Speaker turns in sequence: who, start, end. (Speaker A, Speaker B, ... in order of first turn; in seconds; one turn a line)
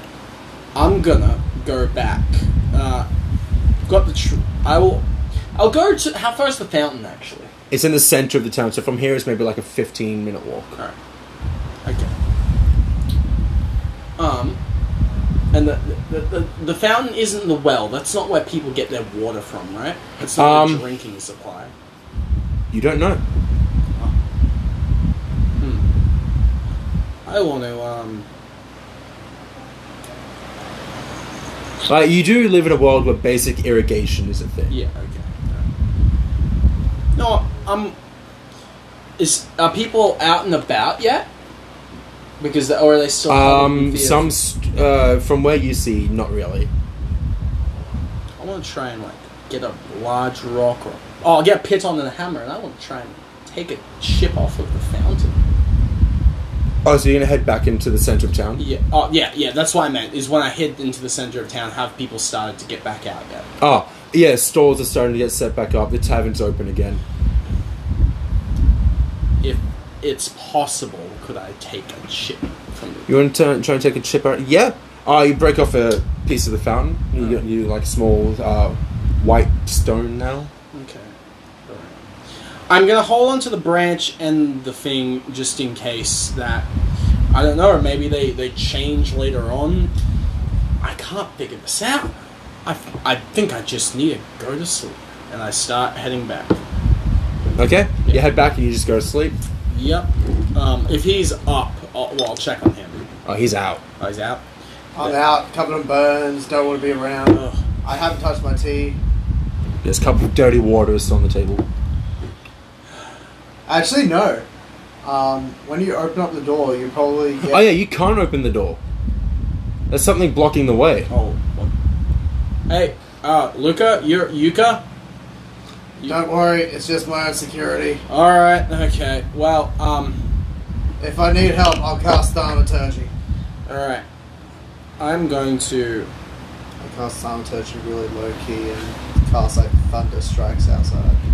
Speaker A: 0.8-3.1
Speaker A: 3.9-7.5
Speaker B: 7.7-10.7
Speaker A: 11.8-12.1
Speaker A: 14.2-14.6
Speaker A: 15.5-21.7
Speaker B: 20.2-20.9
Speaker B: 22.7-23.2
Speaker A: 25.6-25.9
Speaker A: 27.3-28.3
Speaker B: 31.9-34.8
Speaker A: 34.7-35.7
Speaker A: 37.1-38.0
Speaker A: 39.2-41.3
Speaker A: 42.4-44.3
Speaker B: 43.3-46.7
Speaker A: 48.4-55.4
Speaker B: 56.8-58.6
Speaker A: 58.6-63.5
Speaker B: 63.6-67.0
Speaker A: 69.4-73.1
Speaker B: 73.1-80.5
Speaker A: 77.2-77.4
Speaker A: 80.7-81.2
Speaker A: 81.7-82.0
Speaker A: 82.7-86.7
Speaker A: 87.3-89.9
Speaker A: 90.8-96.6
Speaker B: 97.5-99.4
Speaker A: 99.7-103.1
Speaker B: 103.2-103.8
Speaker A: 104.0-104.4
Speaker C: 105.0-109.0
Speaker A: 107.3-107.6
Speaker B: 109.8-111.7
Speaker C: 113.7-114.5
Speaker C: 115.0-117.7
Speaker B: 117.4-118.8
Speaker B: 119.9-121.1
Speaker A: 121.1-121.7
Speaker A: 122.7-124.8
Speaker C: 126.1-128.0
Speaker A: 128.1-130.2
Speaker C: 131.0-133.1
Speaker A: 133.7-134.1
Speaker A: 135.0-136.1
Speaker C: 136.8-141.2